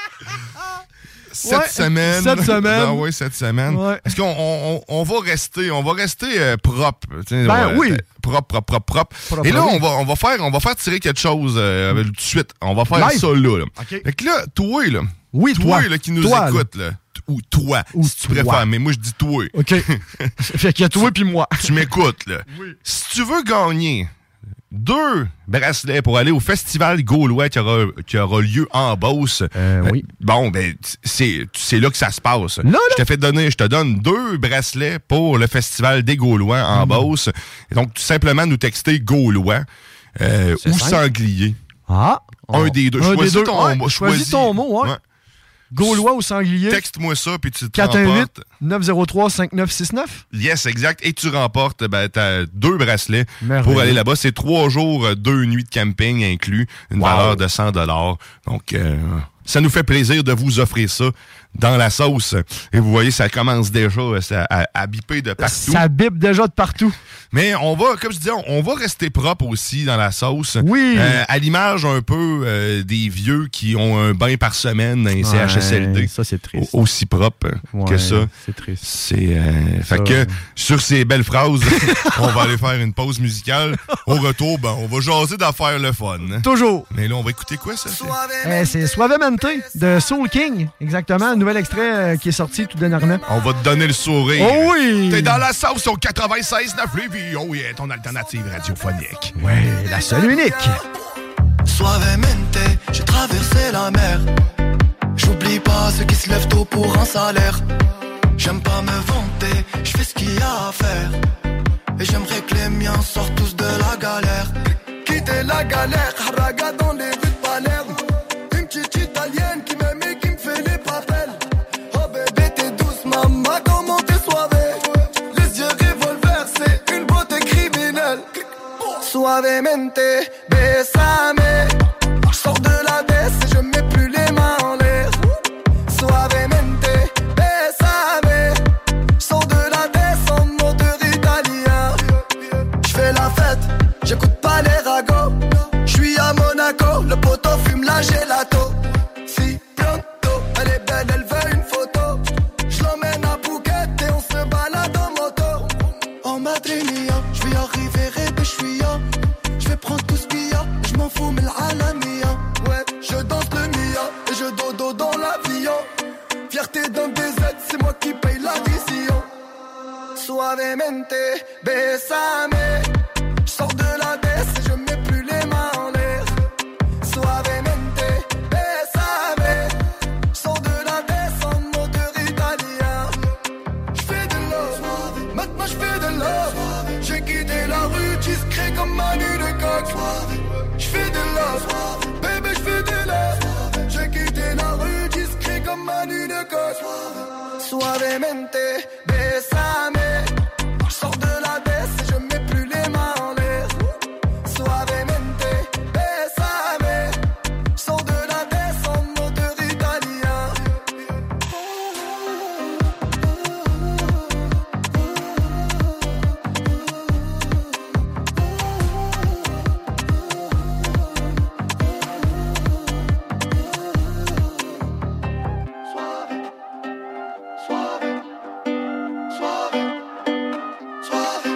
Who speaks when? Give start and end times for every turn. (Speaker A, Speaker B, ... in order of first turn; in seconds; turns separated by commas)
Speaker A: 1.3-20.3, Speaker B: 1.4-3.0, Speaker B: 3.7-4.1, Speaker B: 7.5-8.0, Speaker B: 9.3-9.8, Speaker B: 12.9-14.0, Speaker B: 15.3-16.7, Speaker B: 17.9-18.6, Speaker B: 19.6-19.9, Speaker B: 20.4-21.7, Speaker A: 21.6-24.1, Speaker A: 24.7-39.6, Speaker B: 29.6-30.1, Speaker B: 32.6-33.0, Speaker B: 36.7-37.1, Speaker A: 40.2-41.6, Speaker B: 40.6-41.0, Speaker B: 41.9-45.0, Speaker A: 42.5-45.0, Speaker B: 45.7-46.8, Speaker A: 46.7-48.4, Speaker B: 47.7-50.2, Speaker A: 50.3-65.8, Speaker B: 53.4-54.0, Speaker B: 57.0-57.4, Speaker B: 65.4-67.0, Speaker A: 67.3-78.3, Speaker B: 70.6-71.2, Speaker B: 75.2-76.7, Speaker B: 77.7-78.8, Speaker A: 78.8-88.2, Speaker B: 79.9-80.3, Speaker B: 81.8-82.1, Speaker B: 86.4-86.9, Speaker C: 87.9-89.8, Speaker B: 88.4-93.2, Speaker A: 93.3-99.3, Speaker B: 94.4-95.4, Speaker B: 99.4-100.8, Speaker C: 99.8-100.8, Speaker C: 101.7-104.3, Speaker C: 105.2-107.6, Speaker C: 108.4-111.2, Speaker C: 112.0-118.0, Speaker C: 118.5-128.4, Speaker C: 129.0-135.3, Speaker C: 135.9-138.6, Speaker C: 139.2-142.0, Speaker C: 142.8-159.0, Speaker C: 159.6-165.9, Speaker C: 166.5-169.3, Speaker C: 170.2-172.9, Speaker C: 173.5-176.3, Speaker C: 177.0-179.8, Speaker C: 180.3-183.2, Speaker C: 183.9-200.3, Speaker C: 200.8-203.8, Speaker C: 204.4-207.2, Speaker C: 207.8-210.8